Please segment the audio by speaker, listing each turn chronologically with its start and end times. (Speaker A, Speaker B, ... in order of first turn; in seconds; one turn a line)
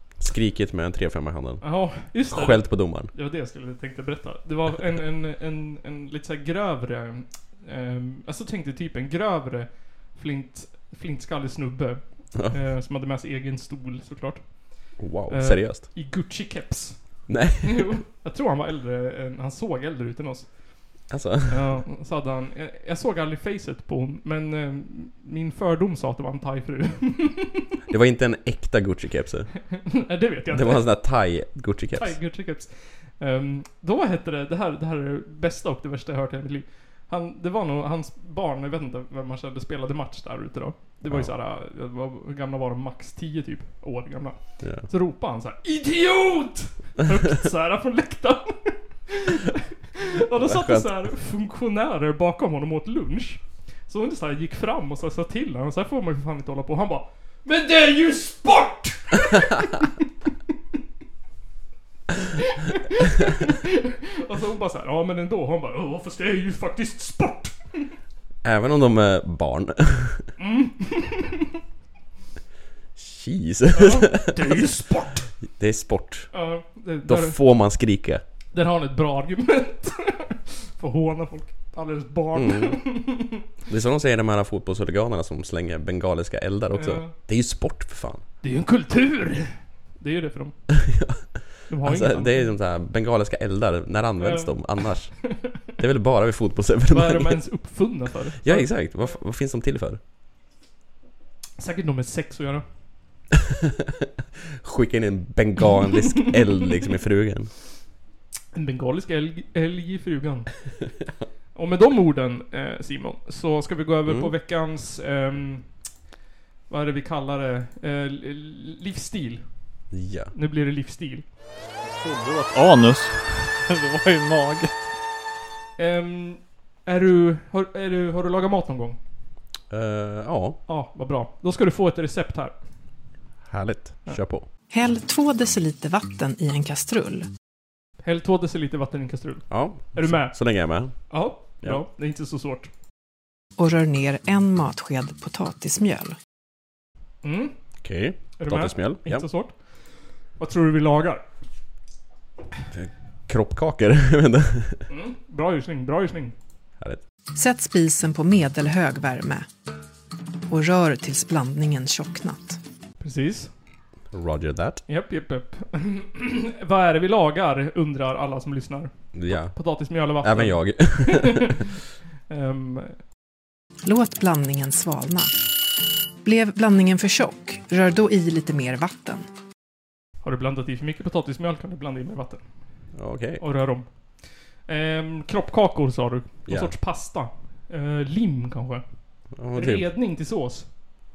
Speaker A: 0.2-3.1
Speaker B: 1.6-27.7
Speaker A: 15.0-15.8
Speaker A: 17.3-17.9
Speaker A: 21.1-21.8
Speaker A: 27.9-29.5
Speaker B: 29.9-30.9
Speaker A: 30.5-32.2
Speaker B: 31.9-59.9
Speaker A: 41.0-41.3
Speaker A: 44.6-44.9
Speaker A: 50.4-51.1
Speaker B: 62.4-67.9
Speaker A: 68.4-70.3
Speaker B: 70.4-71.4
Speaker A: 73.0-74.6
Speaker B: 73.7-75.3
Speaker A: 75.5-76.3
Speaker B: 76.3-77.4
Speaker A: 77.0-78.2
Speaker B: 78.5-83.4
Speaker A: 82.3-82.8
Speaker A: 83.7-88.2
Speaker B: 86.7-87.2
Speaker B: 88.4-90.6
Speaker A: 90.7-97.4
Speaker B: 91.7-92.5
Speaker B: 94.2-95.5
Speaker B: 96.9-98.7
Speaker A: 98.4-100.0
Speaker B: 101.6-102.6
Speaker A: 103.5-107.5
Speaker B: 108.5-110.5
Speaker B: 111.5-115.8
Speaker A: 114.0-114.3
Speaker B: 116.7-119.6
Speaker A: 119.9-120.3
Speaker B: 120.3-121.2
Speaker C: 121.9-124.7
Speaker B: 125.8-129.0
Speaker A: 129.7-130.6
Speaker B: 130.7-132.5
Speaker A: 133.5-134.5
Speaker D: 134.7-137.3
Speaker B: 138.0-142.7
Speaker A: 139.5-141.8
Speaker D: 143.6-146.2
Speaker B: 147.2-147.5
Speaker A: 147.8-149.3
Speaker B: 148.4-151.2
Speaker A: 152.7-154.8
Speaker B: 154.9-156.3
Speaker D: 157.3-159.5
Speaker D: 160.5-162.6
Speaker B: 163.0-163.5
Speaker A: 164.1-164.8
Speaker B: 164.9-171.7
Speaker A: 169.1-171.6
Speaker B: 172.3-173.0
Speaker D: 173.8-175.3
Speaker D: 176.2-179.2
Speaker B: 180.2-182.4
Speaker A: 182.9-183.4
Speaker B: 183.4-188.8
Speaker A: 186.5-186.7
Speaker A: 189.3-189.9
Speaker B: 189.5-190.7